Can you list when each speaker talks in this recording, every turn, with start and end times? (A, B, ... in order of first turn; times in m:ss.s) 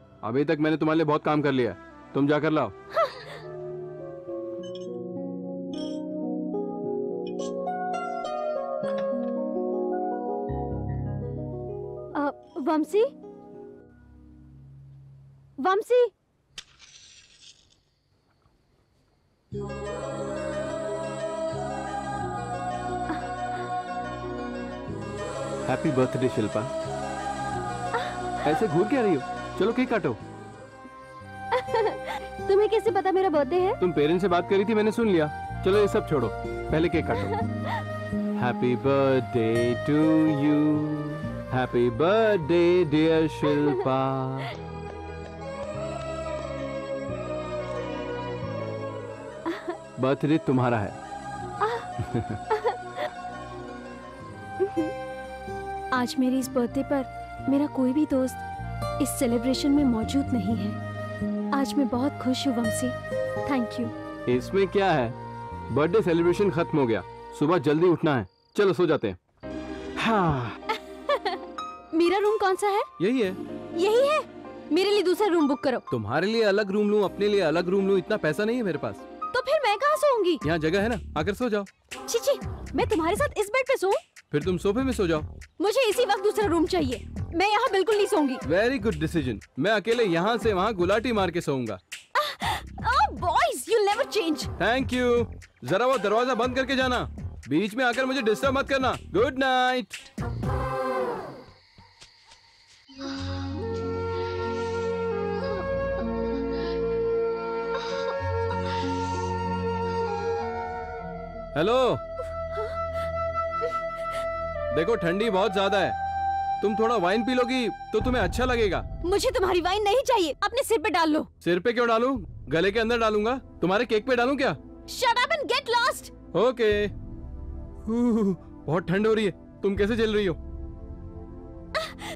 0:00.2-0:02.7 A
0:02.9-0:03.3 B
0:12.1-0:13.1 B
0:15.6-0:16.1 B
0:25.6-0:26.7 A
0:28.4-0:30.2 A
0:31.5-0:33.8 B
0:33.8-0:37.4 A
0:38.4-0:44.5 A
0:50.0-0:51.0 A
0:51.6-0:51.9 B
0:52.1-0:52.4 A
0:52.5-0:52.8 B
0:54.6-0:54.9 B
0:55.9-0:58.4 B
0:59.0-1:00.8 B
1:01.5-1:03.9 B
1:04.2-1:05.2 A
1:05.7-1:09.2 A
1:11.1-1:11.4 B
1:11.9-1:12.9 B
1:13.0-1:13.4 A
1:13.8-1:15.8 B
1:15.9-1:19.0 A
1:19.3-1:20.4 B
1:20.4-1:21.7 A
1:22.1-1:24.0 B
1:24.3-1:25.3 A
1:25.6-1:28.4 B
1:28.4-1:31.8 A
1:32.1-1:34.5 B
1:34.6-1:40.0 A
1:51.5-1:52.0 A
1:54.7-1:56.0 A
1:56.6-1:58.8 A
1:59.0-2:01.3 B
2:01.4-2:04.6 A
2:04.9-2:06.1 B
2:06.3-2:06.9 A
2:07.8-2:10.4 A